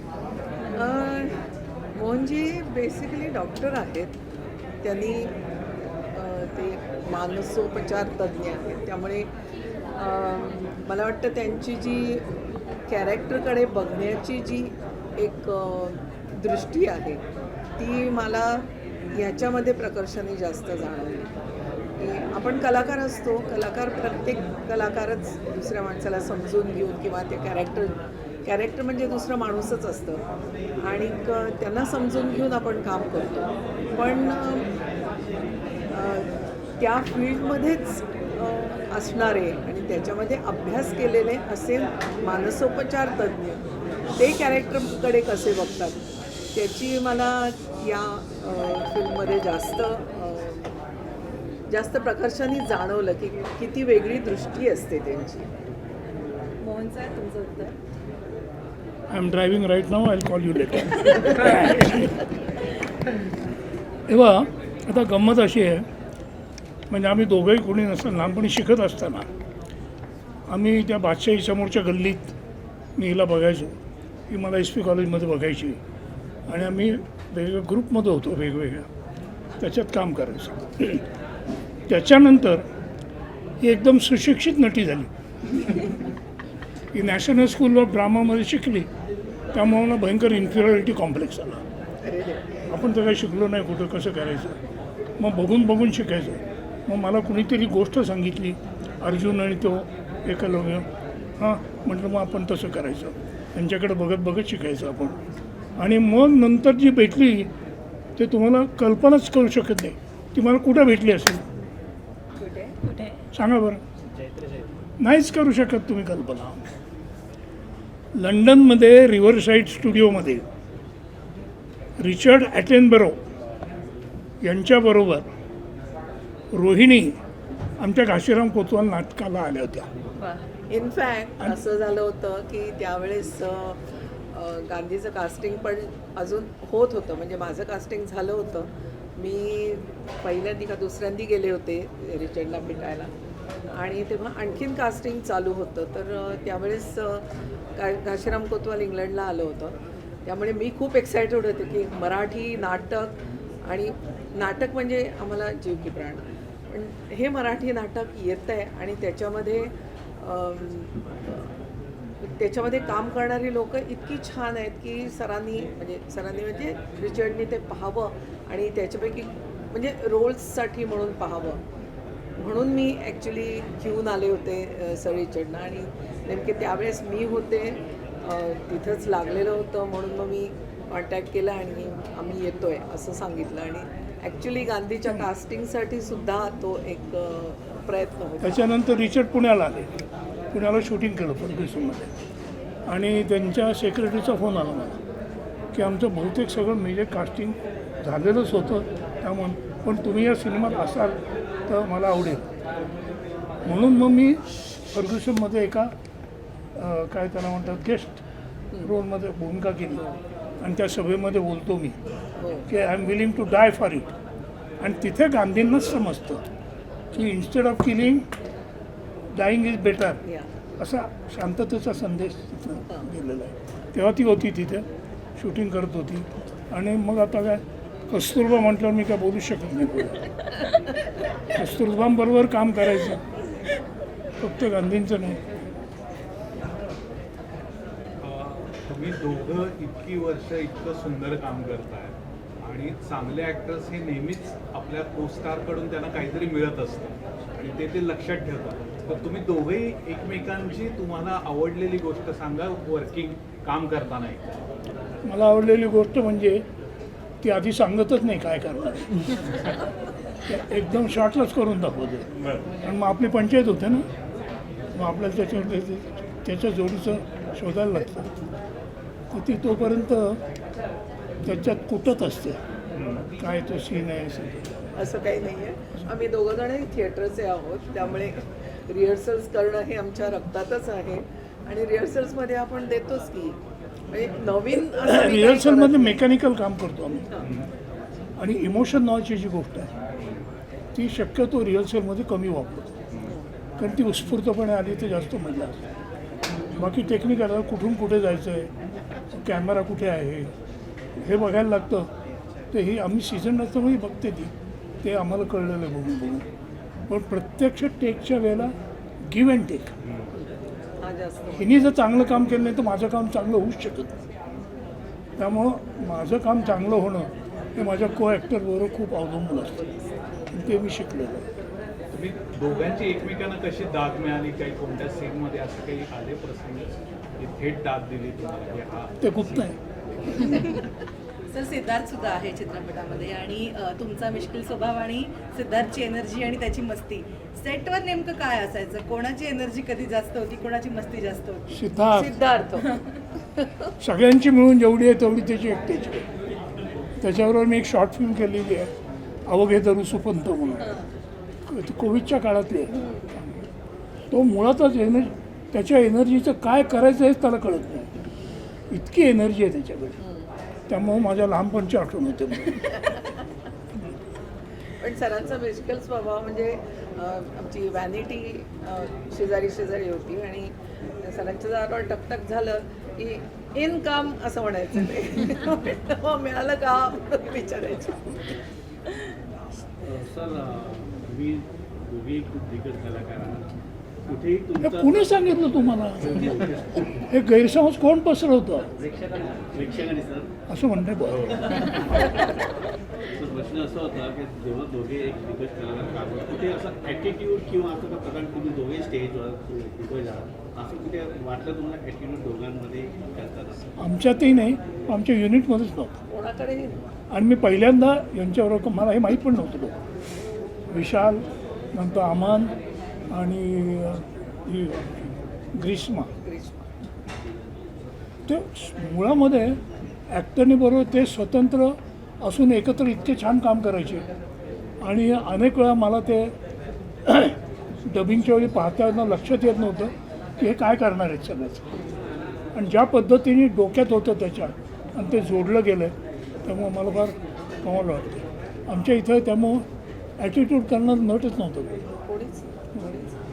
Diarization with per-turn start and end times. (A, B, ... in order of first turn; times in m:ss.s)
0:00.7-0:01.4 A
0:01.9-0:04.2 A
0:04.8-0:05.3 A
0:06.1-0:09.3 A
0:09.9-0:12.2 A
0:12.9-0:17.2 A
0:17.8-0:21.3 A
0:22.0-0:30.2 A
0:30.8-0:34.7 A
0:35.9-0:43.6 A
0:44.2-0:46.0 A
0:46.5-0:50.7 A
0:51.7-0:55.5 A
0:56.6-0:57.7 B
0:59.1-1:02.2 C
1:04.1-1:05.9 C
1:06.9-1:09.3 C
1:10.5-1:12.3 C
1:13.0-1:13.7 C
1:14.3-1:15.8 C
1:16.5-1:18.9 C
1:19.6-1:21.0 C
1:21.9-1:22.6 C
1:23.6-1:25.1 C
1:26.9-1:28.9 C
1:29.5-1:31.6 C
1:32.7-1:34.6 C
1:35.2-1:40.8 C
1:41.4-1:45.2 C
1:45.8-1:47.5 C
1:48.2-1:51.4 C
1:52.4-1:53.1 B
1:53.3-1:53.8 C
1:55.0-1:56.6 C
1:58.2-2:00.4 C
2:02.0-2:03.2 C
2:04.4-2:05.2 C
2:06.5-2:07.2 C
2:07.8-2:09.9 C
2:10.7-2:13.8 A
2:14.3-2:23.1 A
2:23.7-2:29.7 A
2:30.2-2:41.5 A
2:42.2-2:51.6 A
2:52.4-3:08.6 A
3:08.4-3:09.9 C
3:10.5-3:12.1 C
3:12.9-3:15.0 C
3:15.7-3:22.4 C
3:23.6-3:25.9 C
3:26.8-3:28.2 C
3:28.8-3:30.0 C
3:30.6-3:32.0 C
3:32.4-3:32.7 A
3:32.7-3:34.1 C
3:34.8-3:36.4 C
3:37.1-3:38.2 C
3:39.4-3:40.2 C
3:40.8-3:44.8 C
3:45.4-3:50.3 C
3:51.5-3:53.2 C
3:54.4-3:55.4 C
3:58.2-4:14.4 D
4:15.2-4:16.6 C
4:17.4-4:19.2 C
4:20.4-4:22.3 C
4:22.8-4:24.0 C
4:25.0-4:28.3 C
4:29.3-4:30.4 C
4:31.4-4:32.6 C
4:33.0-4:33.2 D
4:33.4-4:34.8 C
4:35.0-4:43.6 A
4:44.1-4:46.2 A
4:44.9-4:47.2 C
4:48.4-4:49.9 C
4:50.9-4:52.9 C
4:53.8-4:55.8 C
4:56.8-4:58.7 C
4:59.3-5:00.5 C
5:01.2-5:02.1 C
5:02.7-5:04.5 C
5:05.0-5:06.4 C
5:07.1-5:08.7 C
5:09.3-5:09.9 C
5:11.0-5:11.8 A
5:11.6-5:14.1 C
5:15.4-5:19.9 C
5:20.5-5:21.5 C
5:22.1-5:29.7 D
5:29.2-5:29.8 C
5:31.5-5:41.6 B
5:41.7-5:42.4 C
5:42.1-5:42.9 A
5:44.0-5:46.2 C
5:47.2-5:48.9 C
5:49.5-5:51.0 C
5:51.6-5:52.9 C
5:54.3-5:58.1 C
5:58.9-6:00.2 C
6:00.2-6:00.5 A
6:00.9-6:02.8 C
6:05.0-6:18.6 A
6:20.0-6:23.7 E
6:24.3-6:27.3 E
6:24.8-6:26.4 C
6:27.3-6:28.9 C
6:29.0-6:30.5 E
6:30.7-6:31.9 C
6:33.3-6:43.9 E
6:44.0-6:46.2 C
6:46.3-6:47.0 A
6:47.3-6:50.0 C
6:50.9-6:52.7 C
6:53.3-6:56.3 C
6:56.4-6:56.8 A
6:58.4-7:04.3 C
7:05.0-7:06.5 C
7:07.2-7:11.8 C
7:12.7-7:19.8 C
7:20.4-7:22.0 C
7:22.2-7:23.4 A